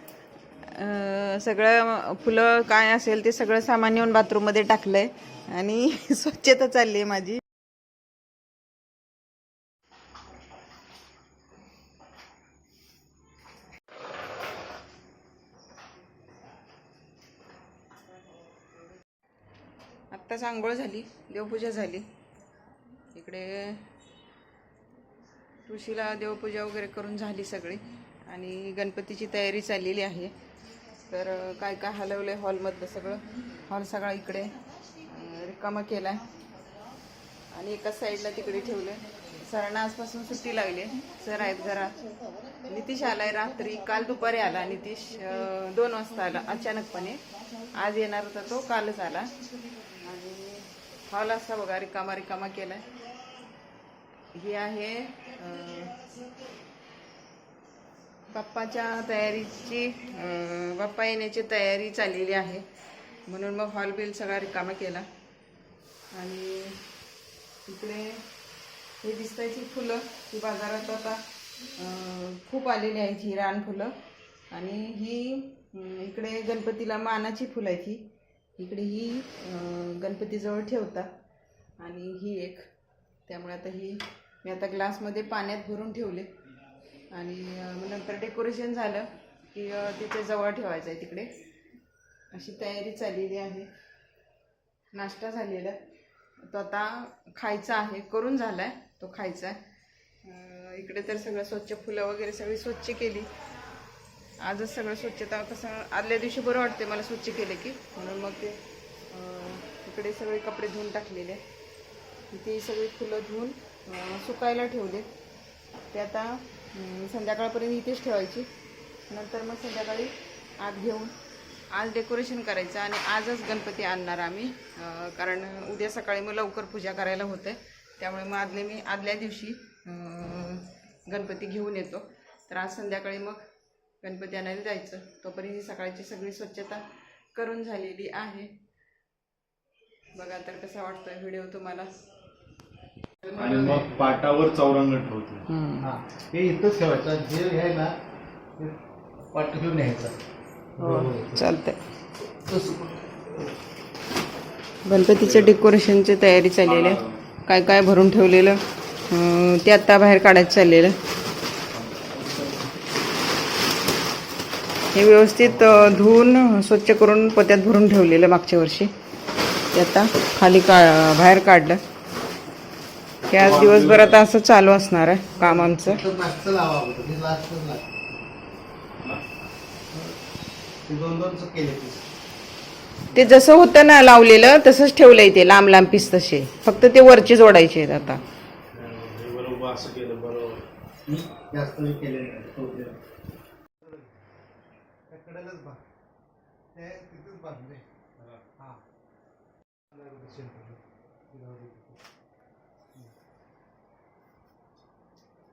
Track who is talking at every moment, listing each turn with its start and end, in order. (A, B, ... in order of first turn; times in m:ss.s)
0:00.6-0:07.4 A
0:20.1-0:22.1 A
0:23.1-0:23.8 A
0:25.6-0:30.3 A
0:31.1-0:36.2 A
0:37.5-0:42.0 A
0:42.6-0:47.2 A
0:47.7-0:49.3 A
0:50.0-0:52.8 A
0:54.3-0:55.9 A
0:58.3-1:02.6 A
1:03.3-1:05.0 A
1:06.1-1:06.8 A
1:07.6-1:08.2 A
1:09.0-1:11.2 A
1:11.7-1:13.9 A
1:14.5-1:21.1 A
1:21.8-1:22.6 A
1:23.3-1:26.3 A
1:27.1-1:31.3 A
1:32.3-1:33.7 A
1:34.9-1:35.8 A
1:36.4-1:39.6 A
1:40.2-1:43.3 A
1:44.4-1:51.4 A
1:52.3-1:55.1 A
1:55.9-1:58.5 A
1:59.1-2:01.1 A
2:01.7-2:13.4 A
2:14.0-2:18.5 A
2:20.1-2:22.1 A
2:23.2-2:24.1 B
2:23.3-2:25.4 C
2:25.5-2:25.9 A
2:25.8-2:27.9 B
2:28.6-2:30.2 B
2:30.8-2:31.4 B
2:30.8-2:31.8 A
2:32.4-2:33.5 B
2:34.8-2:41.0 A
2:35.2-2:35.5 C
2:36.6-2:37.2 C
2:41.7-2:42.7 C
2:44.9-2:48.9 A
2:45.4-2:45.9 C
2:49.7-2:51.8 A
2:53.3-2:54.2 C
2:53.3-2:56.0 A
2:55.4-2:58.1 B
3:00.8-3:02.1 B
3:03.1-3:08.2 A
3:08.7-3:10.6 C
3:11.1-3:13.0 B
3:13.8-3:14.1 B
3:15.1-3:15.8 B
3:16.7-3:17.8 B
3:18.2-3:18.4 C
3:18.6-3:18.8 B
3:19.9-3:22.0 B